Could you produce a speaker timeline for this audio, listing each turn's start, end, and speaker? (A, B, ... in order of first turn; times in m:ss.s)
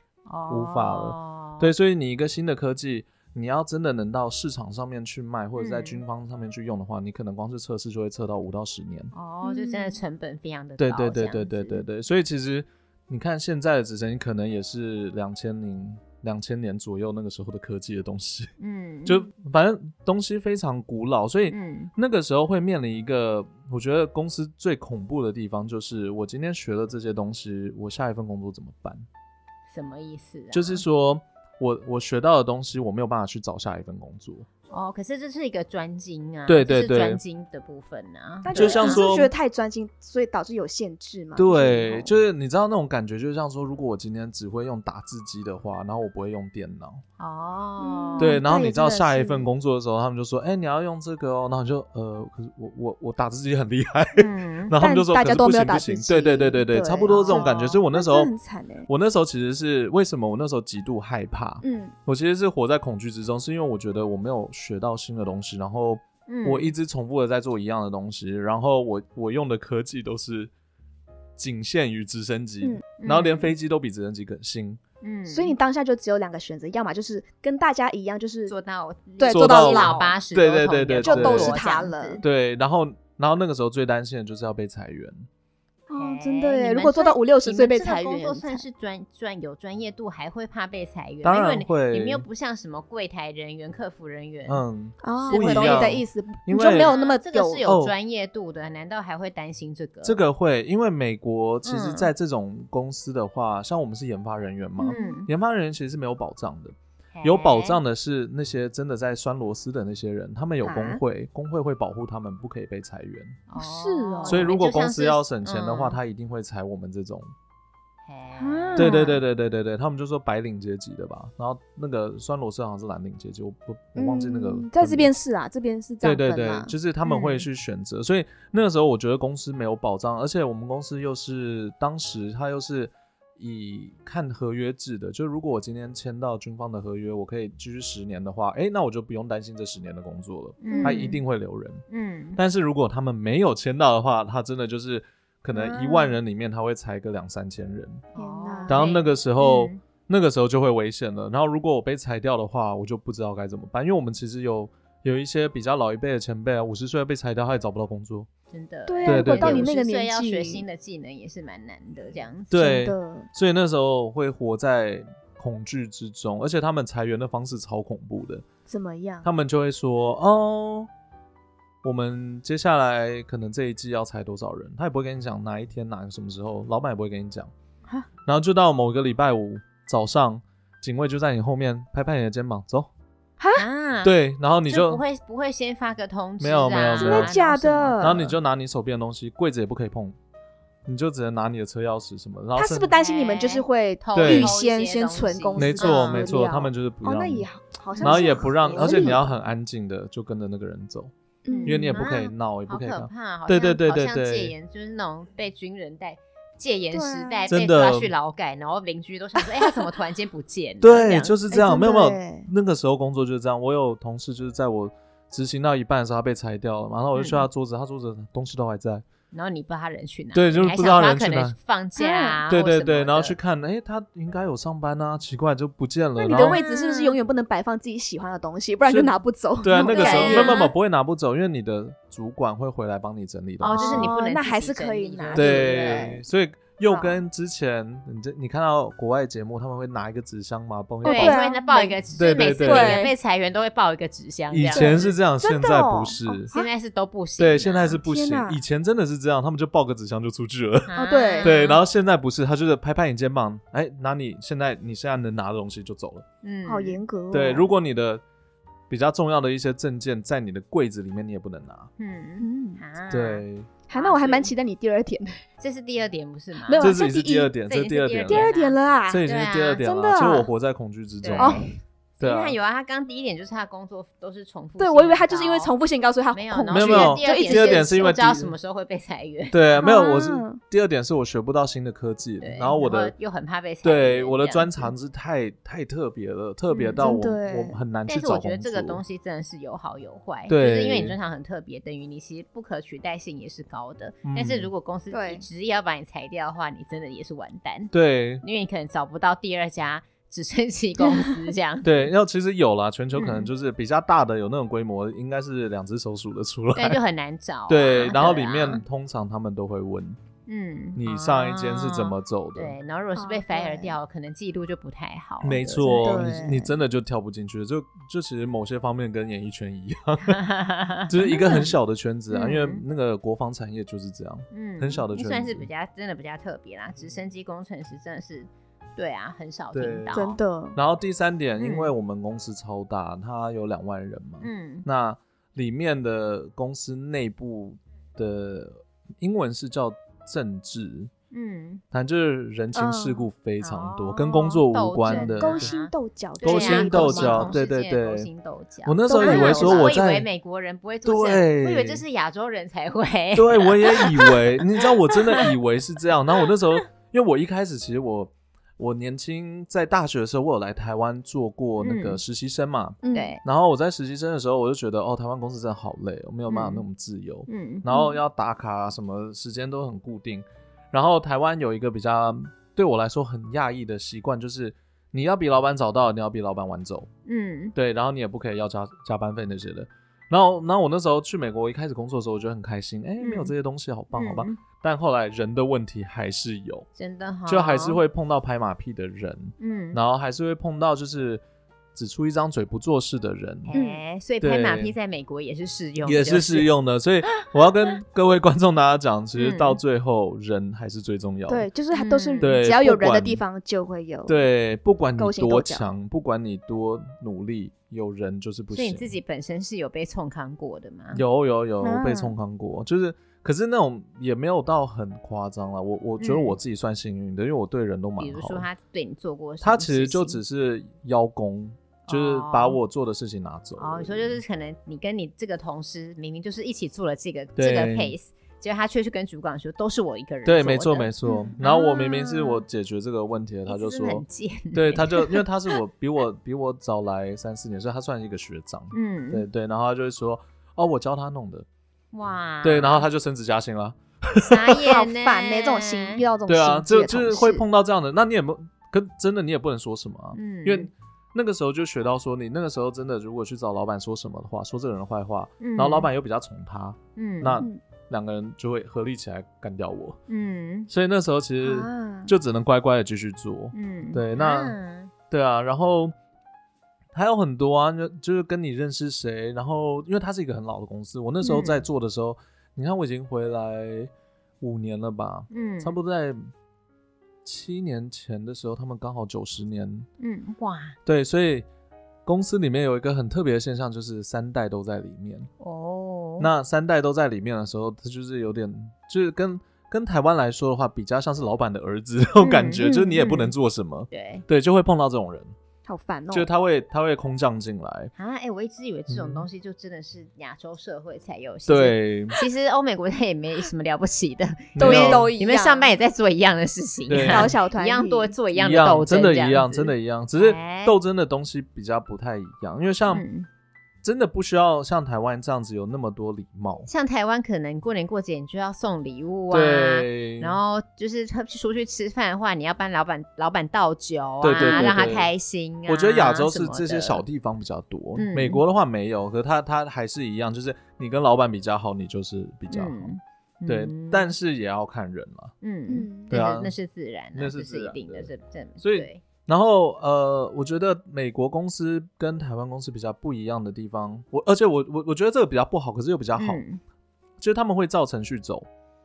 0:00.3-0:01.7 A
0:00.5-0:09.1 B
0:05.6-0:06.0 A
0:09.1-0:11.8 A
0:09.4-0:10.0 C
0:10.8-0:18.5 B
0:18.6-0:19.3 A
0:19.0-0:29.0 B
0:21.5-0:21.9 A
0:29.7-0:30.8 A
0:30.5-0:34.5 B
0:34.7-0:39.0 A
0:36.5-0:37.2 B
0:38.4-0:42.2 C
0:38.5-0:39.3 B
0:41.4-0:47.0 B
0:47.2-0:48.4 A
0:47.8-0:49.5 C
0:48.2-0:58.3 B
0:54.2-0:54.8 A
0:54.8-0:58.9 C
0:57.1-0:57.8 A
0:58.9-1:10.5 B
1:01.6-1:01.9 C
1:06.3-1:06.7 A
1:11.4-1:14.8 B
1:13.0-1:13.5 A
1:15.0-1:15.6 A
1:15.3-1:18.5 C
1:18.5-1:22.2 A
1:19.2-1:20.2 C
1:19.3-1:21.6 B
1:21.0-1:22.2 C
1:22.2-1:25.3 B
1:25.9-1:28.6 C
1:26.0-1:34.6 A
1:31.2-1:32.2 B
1:34.5-1:36.9 B
1:35.0-1:37.6 C
1:35.2-1:36.0 A
1:36.6-1:40.2 A
1:37.6-1:37.9 B
1:40.0-1:53.4 B
1:41.6-1:42.1 A
1:44.8-1:45.2 C
1:44.9-1:45.3 A
1:47.2-1:47.8 A
1:50.6-1:51.0 C
1:53.5-1:56.0 A
1:53.6-1:54.5 C
1:54.3-1:57.3 B
1:58.1-1:59.1 A
1:58.4-1:59.2 C
1:58.8-2:05.1 B
2:04.0-2:06.7 C
2:06.0-2:21.8 B
2:07.0-2:07.4 A
2:20.6-2:21.2 A
2:20.7-2:21.1 C
2:21.9-2:22.4 A
2:22.4-2:28.0 B
2:25.6-2:26.1 A
2:28.1-2:29.8 A
2:28.2-2:28.9 C
2:28.7-2:38.3 B
2:38.5-2:42.6 A
2:38.9-2:40.6 C
2:39.1-2:39.7 B
2:42.5-2:48.4 B
2:42.5-2:43.3 C
2:48.7-2:49.3 C
2:49.2-2:50.9 B
2:51.8-2:57.5 B
2:58.3-3:02.9 B
3:03.4-3:03.6 C
3:03.6-3:04.2 A
3:04.0-3:05.0 B
3:04.7-3:08.3 A
3:06.4-3:07.3 B
3:06.9-3:08.3 C
3:08.0-3:10.2 B
3:10.8-3:12.9 B
3:12.6-3:19.3 C
3:13.0-3:16.3 A
3:14.2-3:14.5 B
3:15.6-3:17.5 B
3:17.9-3:19.2 A
3:18.0-3:21.1 B
3:21.4-3:22.0 C
3:21.5-3:31.3 A
3:21.7-3:24.6 B
3:26.9-3:27.5 C
3:27.5-3:28.1 B
3:30.8-3:39.0 B
3:31.5-3:32.5 C
3:37.2-3:37.5 A
3:39.3-3:43.4 A
3:40.3-3:41.6 B
3:42.0-3:42.4 C
3:42.5-3:46.6 B
3:46.2-3:50.6 C
3:46.3-3:47.2 A
3:48.9-3:54.1 B
3:49.7-3:50.7 A
3:53.6-3:56.2 A
3:53.6-3:56.2 C
3:55.3-4:01.4 B
3:56.8-3:57.2 C
4:01.0-4:02.0 C
4:01.0-4:05.1 A
4:02.2-4:03.1 B
4:02.6-4:03.1 C
4:04.5-4:06.5 B
4:04.7-4:06.7 C
4:06.5-4:08.0 A
4:07.4-4:16.2 B
4:07.9-4:08.6 C
4:10.9-4:11.8 A
4:11.0-4:11.6 C
4:16.4-4:17.0 A
4:16.7-4:17.7 C
4:17.3-4:18.2 B
4:18.9-4:21.9 B
4:22.0-4:24.5 A
4:22.4-4:22.8 C
4:23.1-4:23.7 B
4:23.9-4:25.4 C
4:25.6-4:27.0 A
4:26.6-4:27.5 C
4:26.8-4:28.5 B
4:27.7-4:29.8 A
4:28.3-4:29.2 C
4:29.1-4:31.7 B
4:29.8-4:30.5 C
4:31.2-4:31.6 A
4:31.4-4:31.7 C
4:32.2-4:35.7 A
4:32.2-4:32.6 B
4:34.8-4:38.2 C
4:36.3-4:39.6 A
4:36.7-4:38.5 B
4:39.5-4:43.1 B
4:39.8-4:40.6 C
4:42.4-4:44.9 A
4:43.8-4:49.0 B
4:46.7-4:47.0 A
4:47.0-4:47.8 C
4:48.1-5:02.1 A
4:50.5-4:51.2 B
4:54.2-4:54.7 B
4:55.1-4:55.4 C
4:57.9-4:58.4 B
5:01.0-5:01.3 C
5:01.8-5:07.0 B
5:03.2-5:03.5 A
5:06.8-5:08.8 A
5:07.7-5:10.2 B
5:10.5-5:16.3 A
5:11.0-5:12.8 B
5:13.2-5:14.0 C
5:15.4-5:20.4 B
5:15.8-5:16.7 C
5:20.2-5:21.7 A
5:21.1-5:25.7 B
5:21.3-5:21.7 C
5:22.3-5:22.8 A
5:24.5-5:30.4 A
5:29.7-5:30.2 B
5:30.1-5:30.8 C
5:30.8-5:41.1 B
5:31.6-5:31.9 A
5:34.4-5:34.9 A
5:41.3-5:41.8 A
5:41.9-5:45.7 B
5:42.8-5:43.3 C
5:43.6-5:54.6 A
5:45.1-5:47.5 C
5:46.4-5:48.3 B
5:48.8-5:50.3 B
5:49.1-5:50.0 C
5:51.0-5:52.0 B
5:53.4-6:17.1 B
5:55.2-5:55.5 A
6:01.8-6:02.2 A
6:03.0-6:03.4 C
6:03.1-6:03.4 A
6:06.5-6:06.8 A
6:07.5-6:07.8 A
6:07.9-6:08.2 C
6:17.3-6:17.8 A
6:17.8-6:26.9 B
6:23.2-6:23.5 A
6:24.1-6:24.6 A
6:27.0-6:28.0 A
6:27.5-6:31.4 B
6:29.6-6:30.0 A
6:32.0-6:33.7 B
6:33.7-6:36.7 A
6:33.7-6:34.0 C
6:34.4-6:34.9 B
6:36.0-6:41.7 B
6:39.4-6:39.8 A
6:41.5-6:44.4 C
6:41.9-6:42.5 A
6:42.4-6:43.4 B
6:44.3-6:49.2 B
6:45.2-6:45.9 C
6:48.7-6:51.2 A
6:51.1-6:58.7 B
6:51.8-6:52.4 C
6:56.2-6:56.6 A
6:58.2-7:00.4 A
6:59.6-7:04.4 B
7:02.1-7:02.8 A
7:03.8-7:12.6 A
7:07.6-7:08.2 B
7:10.4-7:21.7 B
7:11.3-7:11.6 C
7:13.7-7:15.5 A
7:18.9-7:19.5 A
7:22.1-7:23.1 A
7:22.6-7:24.9 B
7:24.4-7:26.2 A
7:24.8-7:27.6 C
7:26.5-7:40.2 B
7:30.4-7:30.9 A
7:35.6-7:36.1 A
7:37.2-7:37.7 A
7:40.3-7:40.9 A
7:40.9-7:44.8 B
7:41.6-7:42.3 C
7:43.7-7:45.1 A
7:45.3-7:46.1 B
7:47.1-7:56.4 B
7:51.4-7:51.8 A
7:55.5-7:56.0 A
7:57.4-8:00.1 B
8:00.2-8:01.0 A
8:01.1-8:01.7 B
8:02.3-8:05.5 B
8:05.6-8:06.5 A
8:06.4-8:15.5 B
8:12.4-8:13.5 A
8:12.8-8:13.2 C
8:14.1-8:14.4 A
8:15.9-8:16.5 C
8:16.3-8:18.1 B
8:18.2-8:31.0 A
8:19.1-8:19.5 B
8:21.7-8:22.4 B
8:24.8-8:25.3 B
8:24.8-8:25.9 C
8:27.1-8:27.6 B
8:27.3-8:28.3 C
8:28.5-8:33.2 B
8:33.1-8:33.5 A
8:34.0-8:36.9 B
8:36.9-8:47.2 A
8:39.5-8:40.6 B
8:44.4-8:45.3 B
8:45.9-8:53.1 B
8:48.2-8:48.6 A
8:52.7-8:54.3 A
8:53.7-8:55.5 B
8:55.6-8:59.2 A
8:55.9-8:56.3 C
8:56.3-8:56.8 B
8:57.4-9:06.6 B
9:06.4-9:06.8 A
9:07.4-9:08.7 B